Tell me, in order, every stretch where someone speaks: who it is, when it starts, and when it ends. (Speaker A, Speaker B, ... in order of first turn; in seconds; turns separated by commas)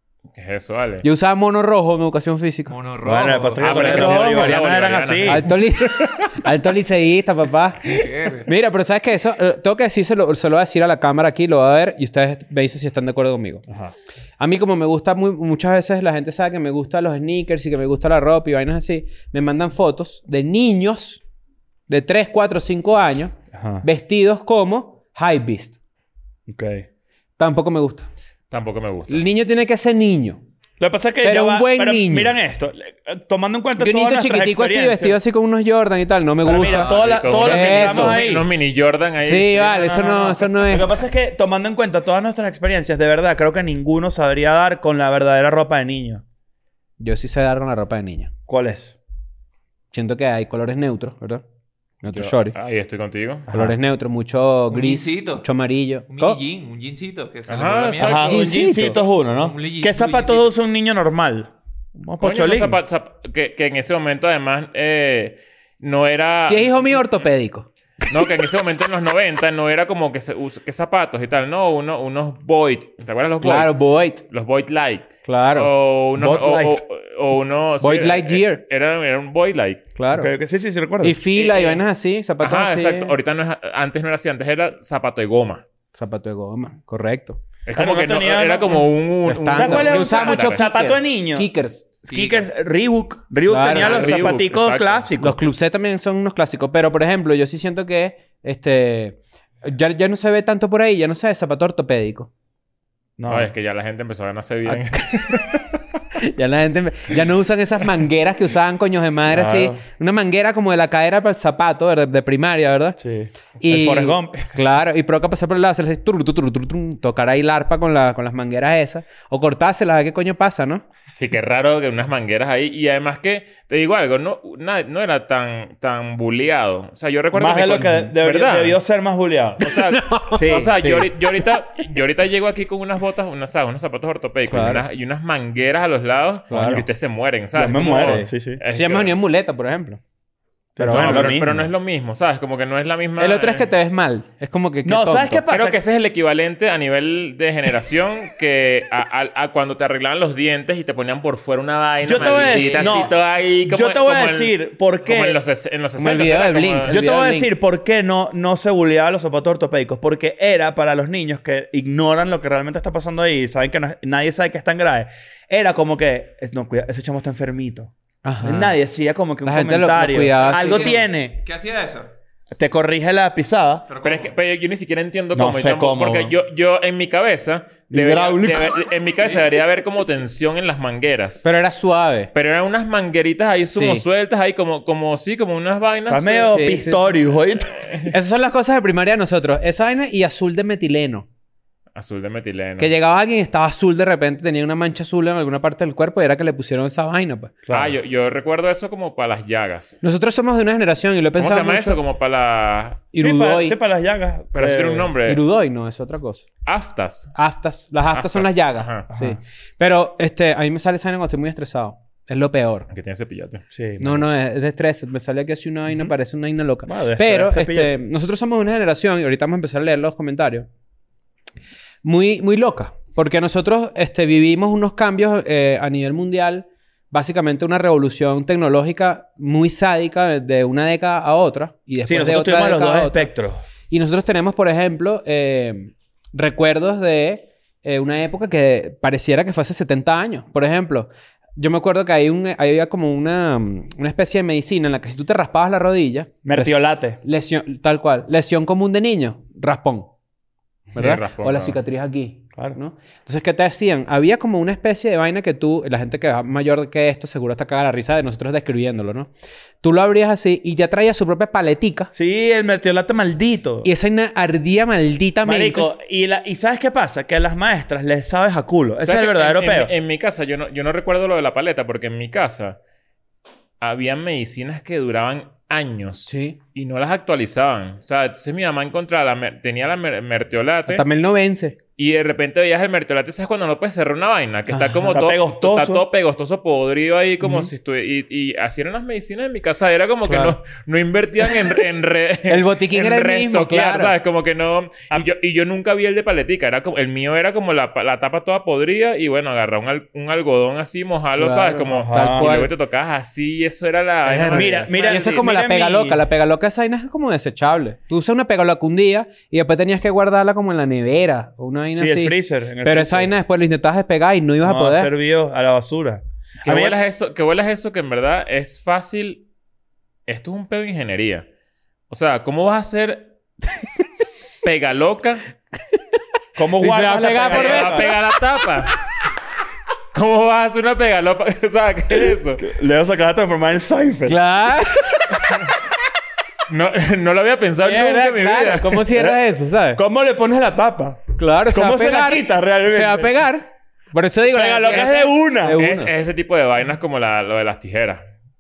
Speaker A: 0.3-1.1, Speaker B: 1.0-2.7, Speaker C: 2.7-3.9, Speaker D: 3.0-5.5, Speaker A: 3.6-6.3, Speaker B: 3.7-4.5, Speaker B: 5.2-13.6, Speaker C: 7.9-8.5, Speaker B: 14.4-21.2, Speaker B: 21.9-25.8, Speaker D: 23.5-23.9, Speaker D: 26.5-26.9, Speaker B: 27.4-28.1, Speaker A: 28.5-29.2, Speaker B: 29.1-30.4, Speaker D: 30.8-35.2, Speaker B: 31.2-32.3, Speaker B: 33.8-38.2, Speaker D: 36.4-38.5, Speaker A: 36.7-40.0, Speaker C: 36.8-37.0, Speaker B: 39.2-40.9, Speaker D: 39.7-46.2, Speaker B: 47.0-48.3, Speaker D: 48.5-49.0, Speaker B: 49.9-51.4, Speaker B: 52.0-52.5, Speaker A: 52.1-53.5, Speaker D: 53.5-53.8, Speaker B: 53.5-56.4, Speaker C: 54.7-55.5, Speaker C: 56.1-58.4, Speaker A: 57.5-58.5, Speaker D: 58.0-62.8, Speaker B: 58.2-59.0, Speaker C: 59.4-60.5, Speaker A: 62.2-67.1, Speaker B: 66.5-67.7, Speaker A: 68.1-79.9, Speaker B: 73.4-74.2, Speaker B: 75.2-75.7, Speaker D: 76.2-76.8, Speaker B: 77.8-78.6, Speaker B: 80.0-80.3, Speaker D: 80.1-81.2, Speaker B: 81.0-83.1, Speaker A: 81.4-81.8, Speaker A: 82.4-85.6, Speaker B: 85.9-87.4, Speaker A: 87.7-90.6, Speaker D: 87.7-88.9, Speaker B: 89.3-91.8, Speaker D: 89.5-91.5, Speaker D: 92.0-95.4, Speaker C: 92.1-92.5, Speaker B: 93.5-94.3, Speaker A: 93.7-95.1, Speaker B: 95.2-102.3, Speaker D: 103.2-103.5, Speaker A: 103.3-105.6, Speaker B: 106.2-113.0, Speaker D: 109.3-109.8, Speaker D: 113.0-114.4, Speaker B: 113.6-120.8, Speaker A: 121.2-128.8, Speaker D: 127.3-129.7, Speaker A: 129.6-139.1, Speaker B: 129.7-130.6, Speaker D: 130.3-131.1, Speaker B: 134.5-134.8, Speaker B: 136.5-136.8, Speaker D: 136.6-136.8, Speaker D: 137.5-138.6, Speaker B: 137.9-140.0, Speaker D: 140.8-141.6, Speaker B: 140.8-141.3, Speaker A: 140.9-143.7, Speaker B: 143.2-145.4, Speaker D: 144.8-145.8, Speaker A: 145.5-156.9, Speaker D: 152.0-155.4, Speaker C: 152.2-153.1, Speaker B: 156.0-157.5, Speaker D: 156.9-171.4, Speaker B: 168.2-168.8, Speaker B: 169.4-171.0, Speaker C: 170.3-172.1, Speaker D: 172.5-173.9, Speaker C: 173.9-174.3, Speaker A: 174.0-181.5, Speaker D: 175.3-176.3, Speaker D: 177.9-178.9, Speaker B: 181.4-182.3, Speaker A: 182.3-186.7, Speaker B: 183.7-184.0, Speaker D: 186.1-187.9, Speaker B: 186.5-187.0, Speaker A: 187.7-188.1, Speaker B: 188.1-191.3, Speaker A: 191.9-192.9, Speaker B: 192.8-197.5, Speaker D: 197.7-197.9, Speaker A: 197.7-200.0, Speaker B: 200.0-202.0, Speaker A: 201.4-203.0, Speaker B: 203.1-203.8, Speaker D: 203.2-205.1, Speaker A: 204.5-205.4, Speaker B: 205.3-206.5, Speaker A: 206.7-207.4, Speaker B: 207.4-212.9, Speaker A: 208.1-209.1, Speaker D: 209.1-209.4, Speaker A: 212.9-213.6, Speaker D: 213.7-214.2, Speaker B: 214.0-220.7, Speaker D: 216.9-217.9, Speaker B: 222.0-233.3, Speaker D: 232.0-233.6, Speaker B: 233.9-250.1, Speaker D: 246.4-247.2, Speaker A: 250.9-251.8, Speaker B: 250.9-259.3, Speaker B: 259.8-262.1, Speaker D: 262.1-263.9, Speaker B: 263.8-265.9, Speaker D: 265.4-269.9, Speaker A: 269.0-272.8, Speaker A: 273.8-281.1, Speaker B: 276.3-276.6, Speaker B: 280.9-281.8, Speaker A: 282.0-305.4, Speaker B: 284.7-285.2, Speaker D: 285.1-286.1, Speaker B: 287.4-287.7, Speaker B: 290.3-290.6, Speaker B: 292.5-294.1, Speaker B: 301.4-302.7, Speaker D: 301.9-302.6, Speaker B: 304.3-315.1, Speaker D: 304.5-306.2, Speaker D: 311.9-313.3, Speaker D: 314.6-317.0, Speaker A: 316.6-319.4, Speaker A: 320.3-321.5, Speaker A: 322.1-323.3, Speaker A: 324.6-325.4, Speaker D: 326.6-328.1, Speaker B: 326.8-328.2, Speaker A: 327.4-328.9, Speaker A: 330.1-332.7, Speaker D: 332.6-334.4, Speaker B: 334.3-335.4, Speaker A: 336.7-339.1, Speaker B: 337.8-340.0, Speaker D: 339.1-339.4, Speaker D: 339.9-343.4, Speaker B: 341.4-346.1, Speaker D: 344.5-345.8, Speaker A: 344.9-345.2, Speaker A: 345.7-348.3